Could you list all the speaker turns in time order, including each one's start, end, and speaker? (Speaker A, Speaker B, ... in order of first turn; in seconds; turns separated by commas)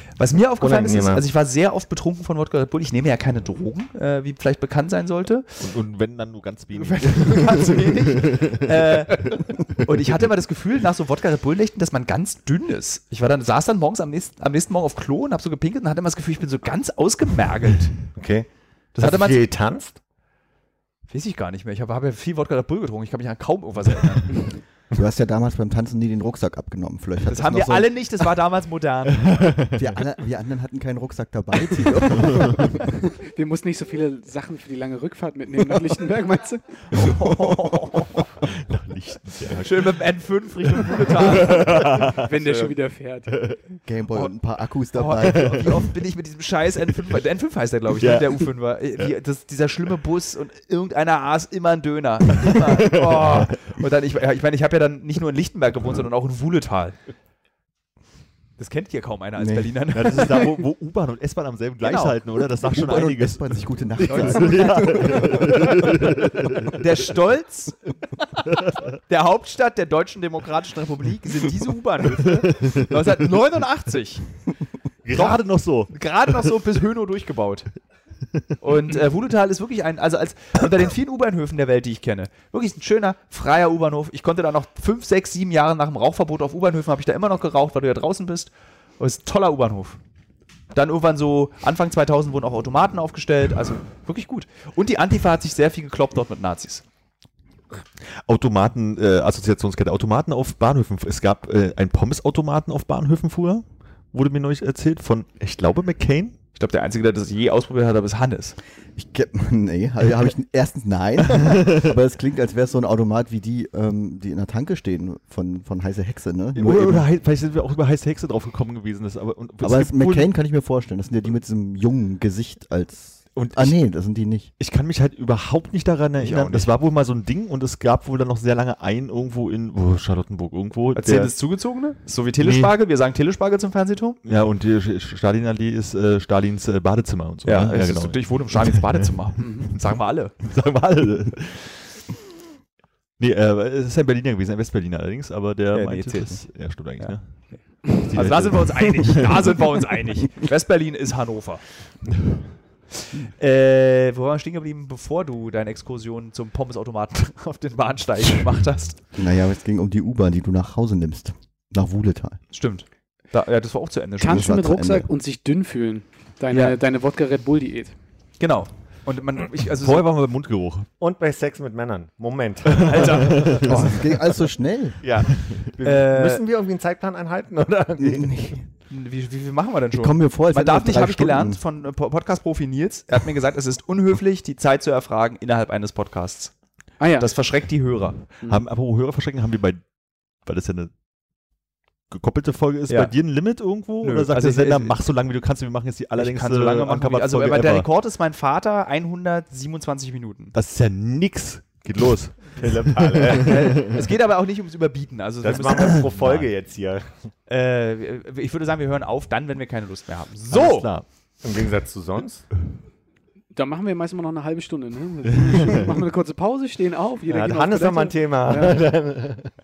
Speaker A: 0.2-5.7, Speaker B: 0.6-1.2, Speaker C: 5.6-8.7, Speaker A: 6.8-17.9, Speaker B: 18.1-18.5, Speaker A: 18.9-19.4, Speaker B: 19.0-20.0, Speaker A: 21.1-24.5, Speaker D: 24.9-28.0, Speaker A: 27.3-29.3, Speaker C: 29.2-29.7, Speaker D: 29.7-32.9, Speaker E: 33.1-37.1, Speaker C: 37.0-39.9, Speaker A: 37.1-37.9, Speaker A: 39.5-41.9, Speaker C: 40.8-42.6, Speaker E: 41.7-43.5, Speaker D: 43.8-45.9, Speaker A: 44.9-57.0, Speaker C: 48.0-48.5, Speaker C: 52.9-53.5, Speaker A: 58.6-60.5, Speaker D: 59.4-59.7, Speaker C: 59.9-66.8, Speaker A: 61.8-62.2, Speaker D: 62.6-66.7, Speaker A: 64.0-65.9, Speaker A: 66.6-67.8, Speaker A: 69.1-74.2, Speaker C: 75.0-75.9, Speaker A: 75.1-77.7, Speaker A: 78.6-90.0, Speaker A: 90.7-96.8, Speaker C: 98.3-106.3, Speaker A: 106.5-108.5, Speaker D: 109.0-117.1, Speaker C: 111.4-111.7, Speaker C: 116.5-120.3, Speaker D: 119.6-124.5, Speaker C: 123.3-123.8, Speaker C: 124.6-131.3, Speaker A: 126.2-126.7, Speaker A: 130.9-134.2, Speaker C: 132.4-132.7, Speaker C: 134.2-139.1, Speaker A: 137.4-140.3, Speaker E: 139.4-139.7, Speaker C: 140.4-141.8, Speaker C: 143.2-147.2, Speaker A: 145.7-146.4, Speaker A: 147.0-151.6, Speaker C: 147.8-149.8, Speaker A: 153.3-159.0, Speaker D: 159.2-162.4, Speaker A: 162.5-164.5, Speaker E: 164.2-167.9, Speaker D: 164.3-165.1, Speaker A: 166.5-166.8, Speaker A: 168.4-170.1, Speaker C: 169.7-170.9, Speaker B: 171.0-173.3, Speaker C: 172.7-174.1, Speaker A: 172.8-173.8, Speaker D: 173.5-175.0, Speaker B: 175.0-178.6, Speaker A: 175.8-176.4, Speaker D: 178.0-178.6, Speaker A: 178.9-186.5, Speaker D: 179.9-181.6, Speaker E: 187.0-187.3, Speaker A: 187.2-188.2, Speaker C: 188.4-189.8, Speaker C: 190.4-190.9, Speaker C: 192.1-197.9, Speaker A: 194.0-194.9, Speaker A: 196.2-200.5, Speaker C: 200.5-203.9, Speaker B: 202.6-203.8, Speaker A: 203.0-206.5, Speaker B: 205.4-207.1, Speaker A: 207.5-210.9, Speaker C: 210.5-211.0, Speaker B: 211.4-212.4, Speaker E: 213.5-218.9, Speaker B: 217.3-219.5